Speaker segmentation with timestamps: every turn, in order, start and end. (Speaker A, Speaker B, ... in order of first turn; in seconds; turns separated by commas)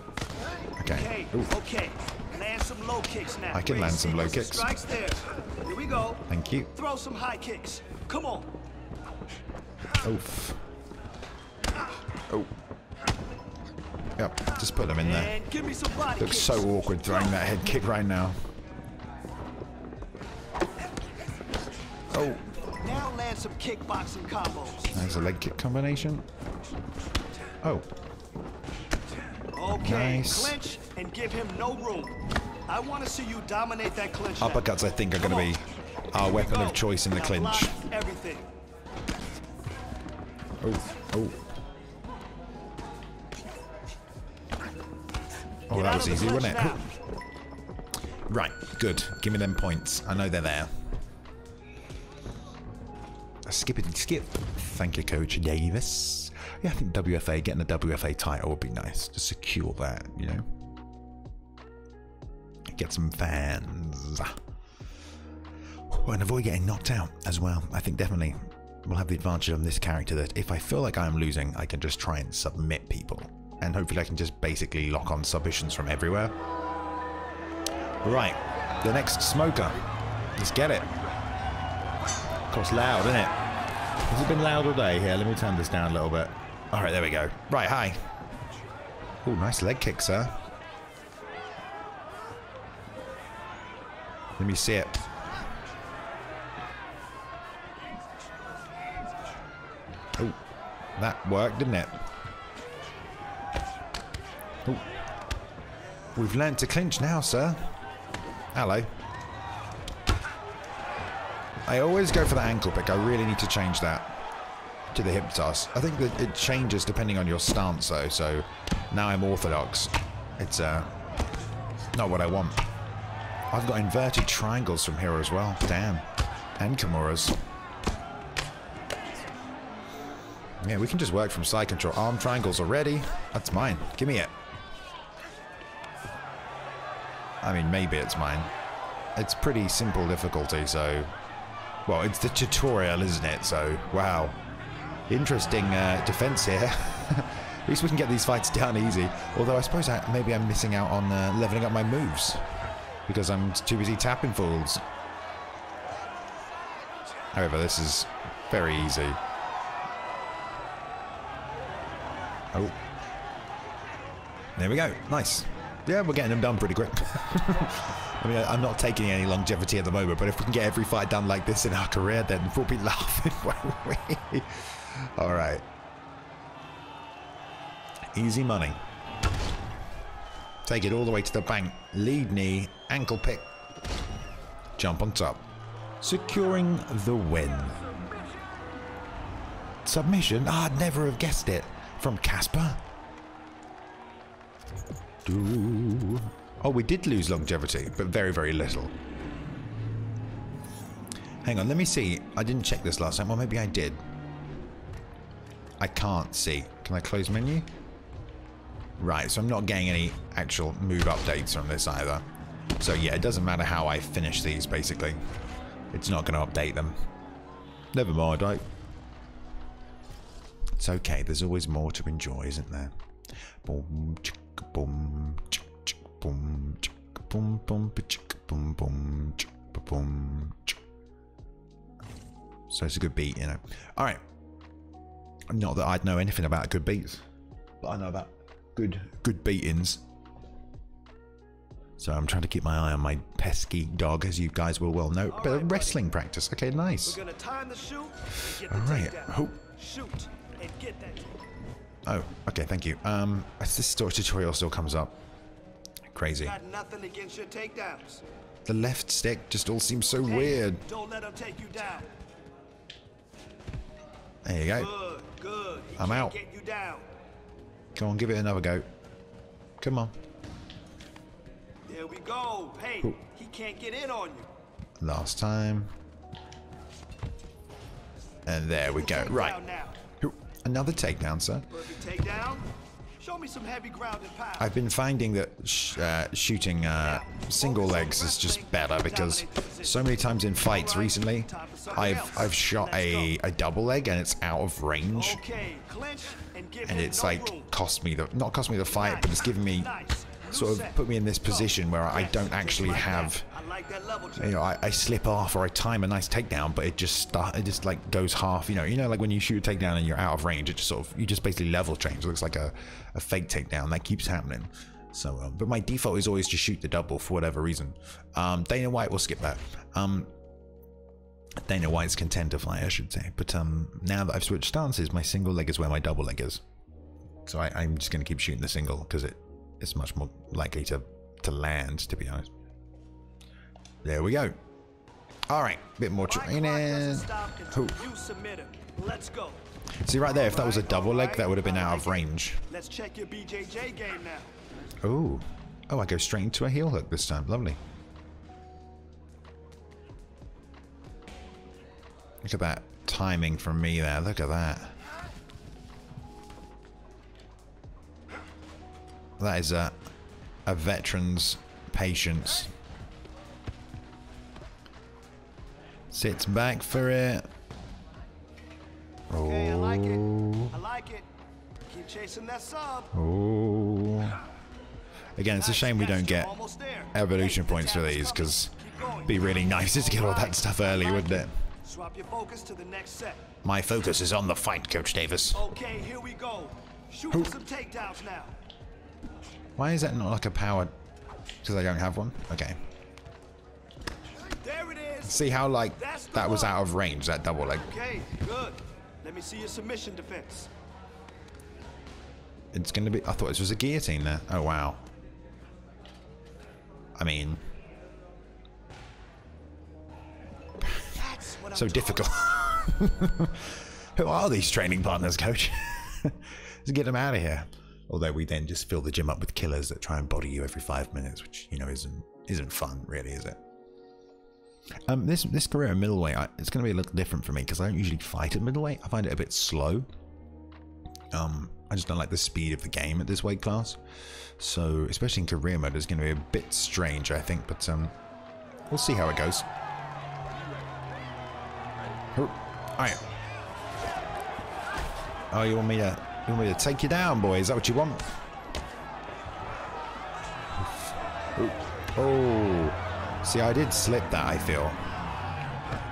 Speaker A: 0.8-1.5, Speaker B: 0.9-8.5, Speaker A: 3.5-4.8, Speaker A: 6.3-6.7, Speaker A: 10.0-10.6, Speaker A: 14.2-15.3, Speaker B: 15.0-16.7, Speaker A: 16.2-18.4, Speaker A: 22.1-22.4, Speaker B: 22.7-24.9, Speaker A: 24.9-26.3, Speaker A: 27.6-27.9, Speaker B: 29.6-35.5, Speaker A: 29.7-30.6, Speaker A: 34.4-37.8, Speaker B: 36.3-38.5, Speaker A: 40.6-41.4, Speaker A: 45.7-46.8, Speaker B: 45.7-47.0, Speaker A: 48.3-50.7, Speaker A: 53.5-60.5, Speaker A: 62.7-64.4, Speaker A: 65.9-76.4, Speaker A: 78.0-79.8, Speaker A: 80.4-80.9, Speaker A: 82.5-83.3, Speaker A: 84.1-88.0, Speaker A: 89.2-90.4, Speaker A: 94.4-95.0, Speaker A: 101.0-102.0, Speaker A: 106.2-107.7, Speaker A: 108.5-108.9, Speaker A: 111.7-114.2, Speaker A: 114.9-120.9, Speaker A: 121.9-122.6, Speaker A: 123.5-126.1, Speaker A: 126.6-127.4, Speaker A: 130.6-134.3, Speaker A: 137.4-138.5, Speaker A: 139.2-141.1, Speaker A: 141.9-144.4, Speaker A: 145.1-152.4, Speaker A: 153.1-154.8, Speaker A: 157.3-159.2, Speaker A: 162.5-162.8, Speaker A: 164.6-175.7, Speaker A: 178.1-178.8, Speaker A: 180.6-183.5, Speaker A: 184.8-185.5, Speaker A: 186.0-187.8, Speaker A: 189.8-192.8, Speaker A: 195.3-198.9, Speaker A: 201.4-204.0, Speaker A: 205.8-207.7, Speaker A: 209.0-212.2, Speaker A: 212.8-215.2, Speaker A: 215.9-217.0, Speaker A: 217.9-218.7, Speaker A: 220.8-222.9, Speaker A: 223.6-230.8, Speaker A: 232.7-234.2, Speaker A: 235.5-237.2, Speaker A: 237.8-240.0, Speaker A: 242.0-247.2, Speaker B: 245.3-246.1, Speaker B: 247.1-251.4, Speaker A: 248.4-249.6, Speaker A: 252.1-255.2, Speaker A: 256.1-256.6, Speaker B: 256.4-258.2, Speaker A: 258.7-260.8, Speaker B: 260.2-262.1, Speaker A: 264.4-264.9, Speaker B: 264.7-267.1, Speaker A: 266.0-266.4, Speaker A: 268.0-268.9, Speaker A: 269.8-270.1, Speaker B: 271.9-274.5, Speaker A: 275.0-275.9, Speaker A: 278.5-279.6, Speaker B: 278.8-280.0, Speaker A: 280.2-281.7, Speaker B: 281.7-284.7, Speaker A: 284.6-295.4, Speaker B: 287.0-293.4, Speaker B: 295.1-297.7, Speaker A: 296.9-299.9, Speaker B: 298.9-304.6, Speaker A: 300.5-303.5, Speaker A: 304.4-320.3, Speaker A: 321.6-326.6, Speaker A: 327.4-332.5, Speaker A: 334.0-334.6, Speaker A: 335.5-338.0, Speaker B: 336.3-339.6, Speaker A: 340.0-342.6, Speaker B: 340.3-344.5, Speaker A: 345.0-347.8, Speaker A: 352.4-355.0, Speaker A: 359.4-360.0, Speaker A: 360.7-362.7, Speaker A: 366.1-367.5, Speaker A: 369.3-370.8, Speaker B: 369.3-371.3, Speaker B: 371.9-373.1, Speaker A: 373.1-374.4, Speaker A: 375.4-376.5, Speaker B: 375.6-383.5, Speaker A: 377.1-378.7, Speaker A: 379.3-381.5, Speaker A: 383.6-385.6, Speaker B: 385.5-388.6, Speaker A: 389.8-390.9, Speaker A: 391.6-392.8, Speaker B: 394.5-396.8, Speaker A: 395.3-397.9, Speaker B: 397.9-400.7, Speaker A: 402.7-405.1, Speaker A: 407.2-407.6, Speaker A: 410.8-411.2, Speaker B: 411.1-412.6, Speaker A: 411.7-423.6, Speaker A: 425.1-430.1, Speaker A: 431.3-438.1, Speaker A: 438.9-439.7, Speaker A: 442.3-443.2, Speaker A: 445.5-448.3, Speaker A: 451.6-455.0